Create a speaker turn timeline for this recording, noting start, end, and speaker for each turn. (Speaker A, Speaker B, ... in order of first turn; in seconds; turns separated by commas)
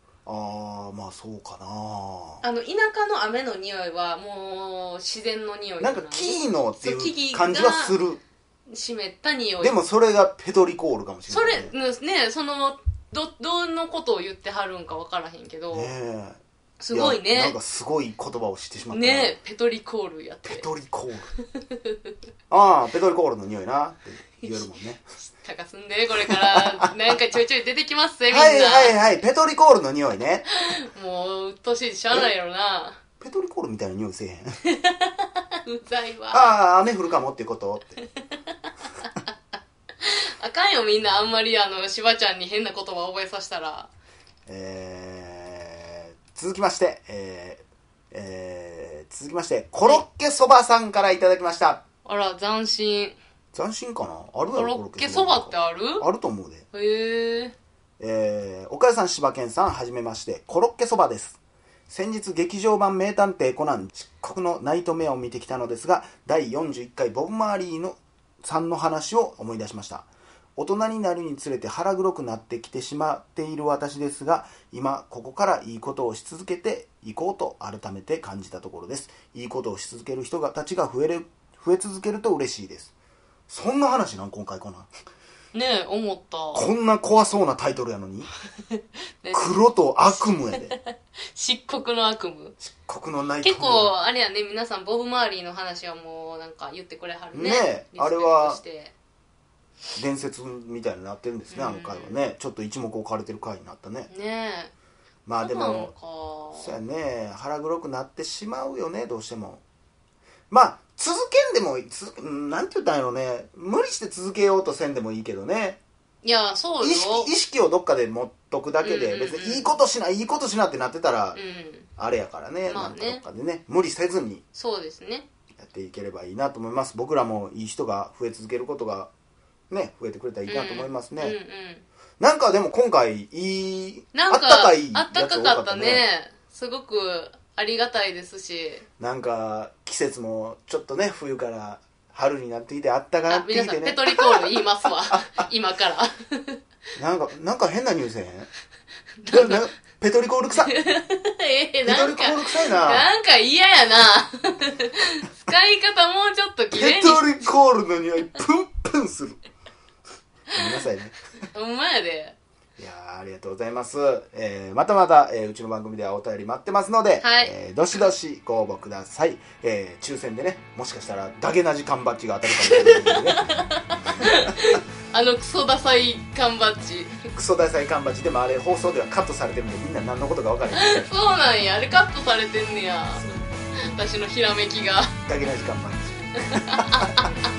Speaker A: 0.2-2.4, Speaker B: 2.4-8.0, Speaker A: 5.8-8.2, Speaker B: 8.7-9.8, Speaker A: 9.6-11.7, Speaker B: 11.3-15.9, Speaker A: 15.7-16.4, Speaker B: 16.8-17.6, Speaker A: 16.9-19.4, Speaker B: 18.9-20.7, Speaker A: 20.4-21.3, Speaker B: 21.4-22.0, Speaker A: 22.5-25.0, Speaker B: 24.4-29.0, Speaker A: 26.6-26.9, Speaker A: 28.3-30.4, Speaker B: 30.6-33.0, Speaker A: 33.2-34.6, Speaker B: 34.7-36.5, Speaker A: 36.3-38.0, Speaker B: 40.0-43.9, Speaker A: 44.5-51.8, Speaker B: 52.0-53.2, Speaker A: 53.5-56.6, Speaker B: 54.5-56.1, Speaker B: 56.7-57.5, Speaker A: 58.0-82.9, Speaker A: 83.5-84.9, Speaker B: 85.5-86.7, Speaker A: 86.5-88.3, Speaker B: 88.7-89.5, Speaker A: 89.3-90.7, Speaker B: 90.5-92.6, Speaker A: 92.6-93.9, Speaker B: 93.4-98.9, Speaker A: 97.3-98.6, Speaker A: 100.0-104.1, Speaker B: 101.5-102.2, Speaker B: 104.1-104.7, Speaker A: 105.2-105.9, Speaker B: 105.4-106.8, Speaker A: 106.5-109.6, Speaker A: 110.5-115.8, Speaker B: 116.2-117.3, Speaker A: 116.8-121.4, Speaker B: 118.8-119.7, Speaker B: 121.3-121.9, Speaker A: 122.0-124.4, Speaker B: 122.7-123.2, Speaker B: 124.5-125.3, Speaker A: 125.6-129.1, Speaker A: 129.7-131.4, Speaker B: 130.5-131.8, Speaker A: 132.2-136.1, Speaker B: 134.1-138.8, Speaker A: 139.0-144.6, Speaker B: 143.3-146.6, Speaker A: 147.0-148.5, Speaker B: 149.2-149.6, Speaker A: 149.3-150.8, Speaker B: 150.6-157.5, Speaker A: 151.8-153.1, Speaker A: 156.7-159.4, Speaker A: 160.5-161.2, Speaker B: 161.4-162.4, Speaker A: 162.8-173.6, Speaker B: 167.2-168.1, Speaker B: 172.5-177.2, Speaker A: 174.1-174.3, Speaker A: 177.3-181.1, Speaker B: 180.7-183.2, Speaker A: 183.2-183.8, Speaker B: 183.8-185.1, Speaker A: 185.3-187.2, Speaker B: 186.6-187.3